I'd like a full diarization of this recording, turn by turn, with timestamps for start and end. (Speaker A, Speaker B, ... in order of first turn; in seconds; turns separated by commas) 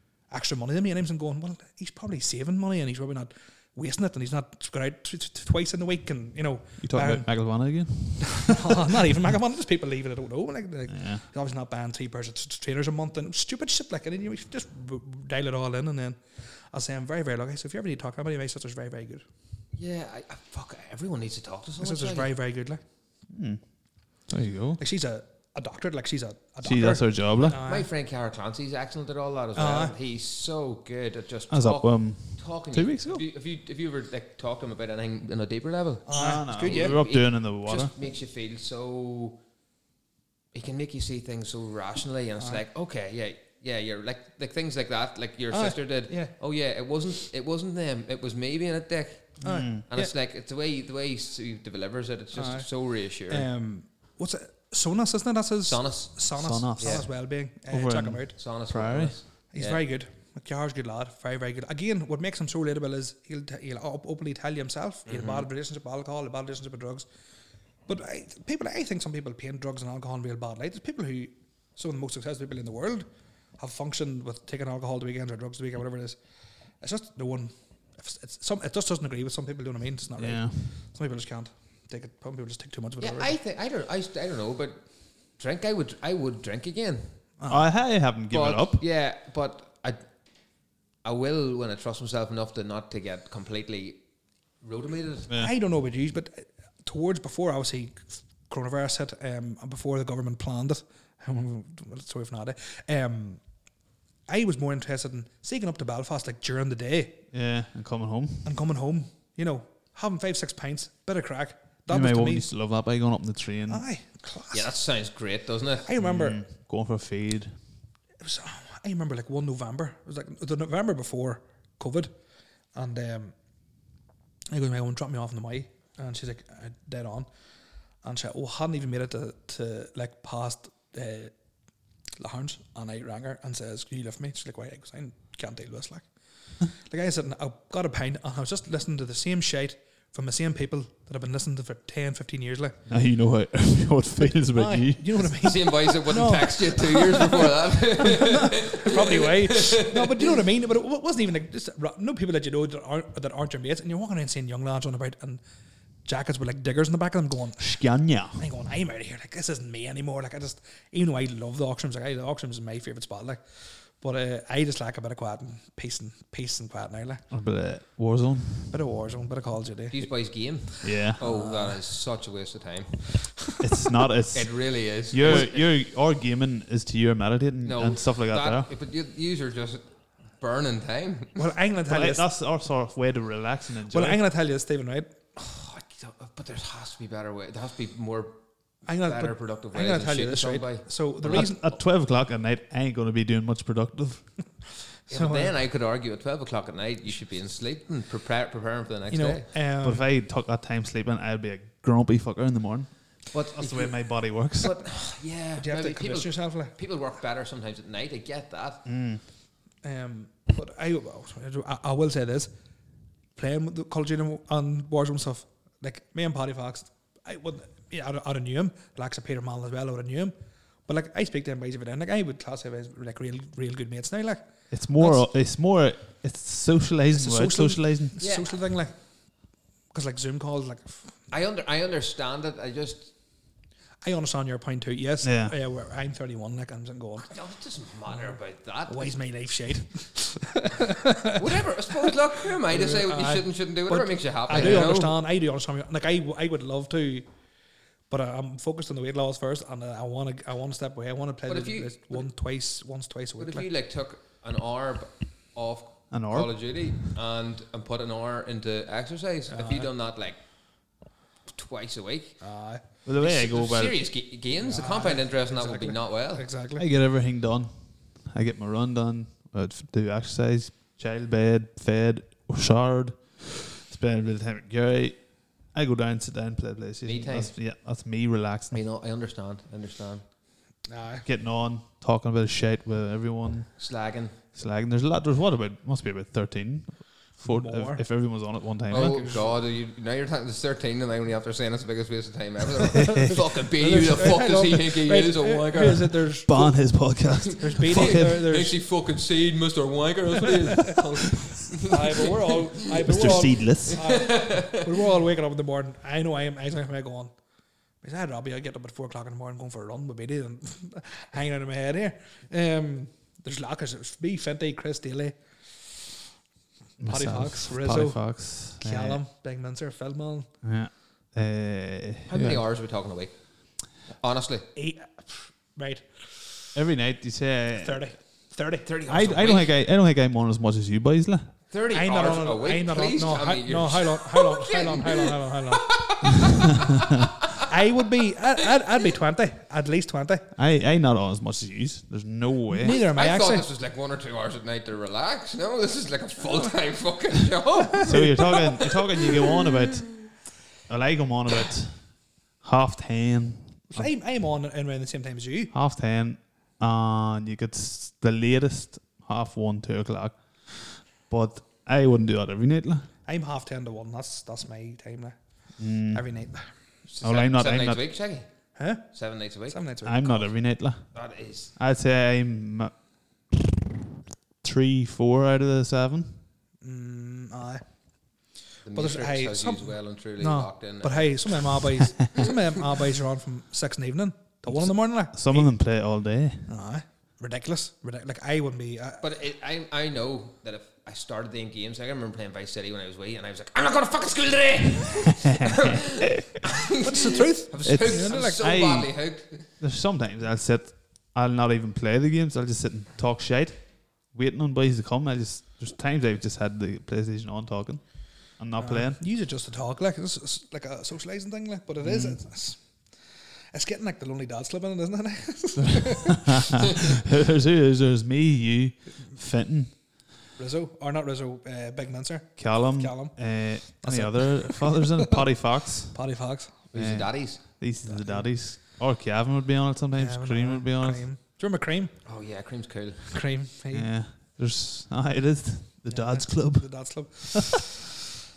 Speaker A: 0.3-7.8, Speaker B: 6.8-8.7, Speaker A: 8.4-19.2, Speaker B: 10.9-11.2, Speaker C: 19.7-22.3, Speaker A: 21.8-22.8, Speaker B: 23.3-23.6, Speaker B: 24.3-24.8, Speaker A: 24.8-27.9, Speaker B: 26.6-27.6, Speaker C: 27.6-39.4, Speaker A: 29.5-29.9, Speaker B: 31.5-33.2, Speaker A: 36.0-37.0, Speaker B: 36.1-37.9, Speaker C: 40.5-53.5, Speaker A: 45.5-46.3, Speaker A: 49.4-50.1, Speaker B: 49.4-49.8, Speaker A: 52.3-58.4, Speaker C: 55.7-57.1, Speaker B: 56.4-59.2, Speaker C: 58.4-59.8, Speaker A: 59.5-67.1, Speaker C: 65.0-65.5, Speaker A: 67.9-76.2, Speaker A: 76.7-83.4, Speaker B: 80.2-80.8, Speaker C: 83.0-87.2, Speaker A: 87.4-87.7, Speaker B: 87.5-88.8, Speaker C: 88.3-90.0, Speaker C: 91.0-94.0, Speaker C: 94.6-95.3, Speaker A: 95.3-103.4, Speaker A: 104.3-107.2, Speaker B: 107.3-108.5, Speaker A: 108.4-112.5, Speaker B: 111.9-113.8, Speaker A: 113.7-114.7, Speaker C: 114.5-115.9, Speaker A: 115.8-116.4, Speaker B: 116.0-117.6, Speaker A: 118.2-122.1, Speaker A: 122.7-123.3, Speaker A: 124.5-127.3, Speaker A: 128.0-131.3, Speaker A: 132.2-136.1, Speaker A: 136.6-142.8, Speaker B: 142.9-145.6, Speaker A: 144.5-155.4, Speaker C: 145.4-150.2, Speaker A: 156.0-167.2, Speaker B: 157.6-158.4, Speaker B: 167.3-168.7, Speaker A: 168.7-170.1, Speaker C: 169.9-173.3, Speaker B: 170.8-171.2, Speaker A: 171.2-171.8, Speaker B: 173.6-178.7, Speaker C: 174.3-175.7, Speaker C: 177.6-181.4, Speaker A: 181.3-182.3, Speaker B: 181.9-184.2, Speaker A: 183.9-185.1, Speaker C: 185.3-188.3, Speaker A: 188.8-191.7, Speaker C: 189.0-191.4, Speaker B: 191.2-194.3, Speaker A: 195.1-195.5, Speaker C: 195.1-199.5, Speaker A: 199.1-200.1, Speaker B: 199.8-204.8, Speaker C: 203.3-208.8, Speaker A: 205.6-206.7, Speaker B: 208.8-209.2, Speaker A: 209.8-212.5, Speaker A: 213.3-225.3, Speaker B: 224.7-228.1, Speaker A: 227.1-229.0, Speaker C: 228.2-228.5, Speaker A: 229.9-231.1, Speaker C: 231.3-233.1, Speaker A: 234.0-237.3, Speaker B: 235.2-235.5, Speaker C: 237.2-239.2, Speaker A: 238.1-238.3, Speaker A: 238.8-247.2, Speaker C: 241.3-245.2, Speaker A: 248.1-253.7, Speaker C: 251.5-252.3, Speaker C: 253.4-260.4, Speaker B: 256.1-256.8, Speaker A: 259.5-259.9, Speaker C: 261.5-266.5, Speaker A: 262.4-262.8, Speaker B: 263.0-264.0, Speaker A: 264.6-266.8, Speaker B: 266.8-278.8, Speaker C: 277.0-277.6, Speaker C: 278.7-280.2, Speaker A: 280.9-281.2, Speaker B: 281.2-283.7, Speaker C: 283.8-284.3, Speaker B: 284.5-289.3, Speaker A: 287.4-288.0, Speaker C: 288.9-296.2, Speaker A: 288.9-289.6, Speaker A: 293.3-298.8, Speaker B: 296.4-298.4, Speaker C: 297.7-304.8, Speaker A: 301.8-307.3, Speaker B: 303.1-304.1, Speaker A: 308.0-316.0, Speaker B: 317.0-319.2, Speaker A: 317.1-320.5, Speaker B: 320.6-322.6, Speaker C: 322.3-324.7, Speaker A: 324.7-326.7, Speaker B: 326.7-328.0, Speaker A: 327.8-328.9, Speaker C: 328.8-329.7, Speaker B: 329.1-331.6, Speaker C: 331.7-337.3, Speaker A: 331.9-336.5, Speaker A: 337.6-340.5, Speaker B: 340.6-343.0, Speaker A: 342.7-343.7, Speaker C: 342.9-350.1, Speaker A: 348.0-348.3, Speaker B: 348.0-354.1, Speaker A: 353.9-355.7, Speaker B: 355.7-363.1, Speaker A: 363.2-365.4, Speaker B: 365.8-366.2, Speaker A: 366.0-366.7, Speaker C: 367.1-368.5, Speaker B: 367.2-368.0, Speaker A: 368.8-369.1, Speaker C: 369.0-369.8, Speaker A: 369.7-370.5, Speaker B: 370.0-371.1, Speaker C: 371.1-371.7, Speaker B: 371.7-372.9, Speaker B: 373.5-373.8, Speaker B: 374.6-376.4, Speaker A: 376.8-377.8, Speaker C: 378.8-382.5, Speaker A: 378.9-385.7, Speaker B: 384.7-386.7, Speaker A: 386.7-389.2, Speaker C: 389.2-399.7, Speaker B: 395.4-396.4, Speaker A: 397.0-398.6, Speaker B: 397.8-399.1, Speaker B: 399.8-409.2, Speaker A: 408.8-413.1, Speaker B: 412.0-412.4, Speaker A: 413.7-416.9, Speaker B: 416.0-420.0, Speaker A: 420.6-426.8, Speaker B: 422.6-426.3, Speaker C: 426.9-427.6, Speaker B: 426.9-431.2, Speaker A: 428.0-428.5, Speaker A: 430.1-432.1, Speaker C: 432.2-433.4, Speaker A: 433.3-434.1, Speaker B: 433.9-437.6, Speaker A: 436.1-438.1